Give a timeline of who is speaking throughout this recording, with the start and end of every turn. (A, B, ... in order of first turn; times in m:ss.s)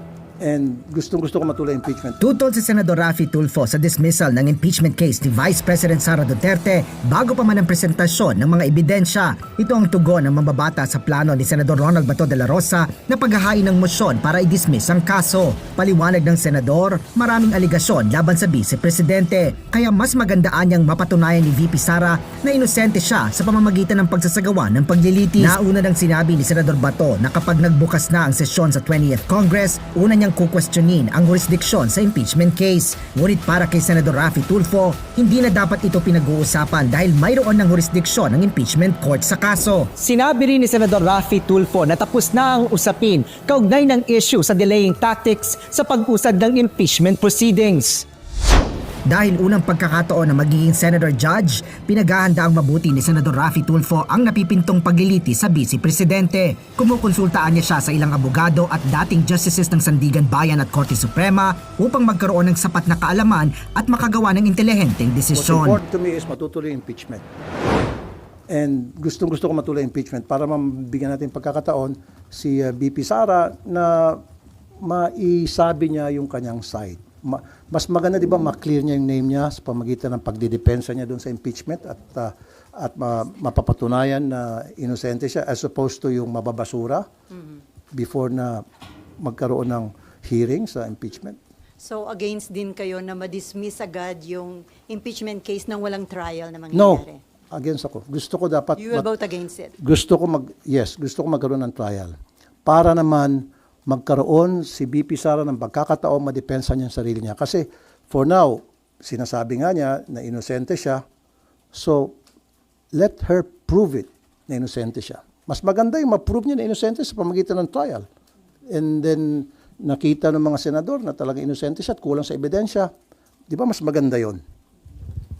0:00.4-0:02.2 A
0:02.2-0:39.9 B
0:40.0-0:48.0 C
0:49.1-1:05.8 B
1:05.3-1:07.3 A
1:08.5-1:14.2 A
1:14.8-1:27.1 A
1:27.3-1:27.6 D
1:27.9-1:28.6 A
1:29.2-1:31.4 A
1:31.8-1:37.2 D
1:36.7-1:39.1 A
1:38.8-1:39.8 D
1:39.8-1:51.0 A
1:51.7-1:52.2 A
1:52.9-1:58.1 A
1:58.7-2:02.9 A
2:03.5-2:04.4 A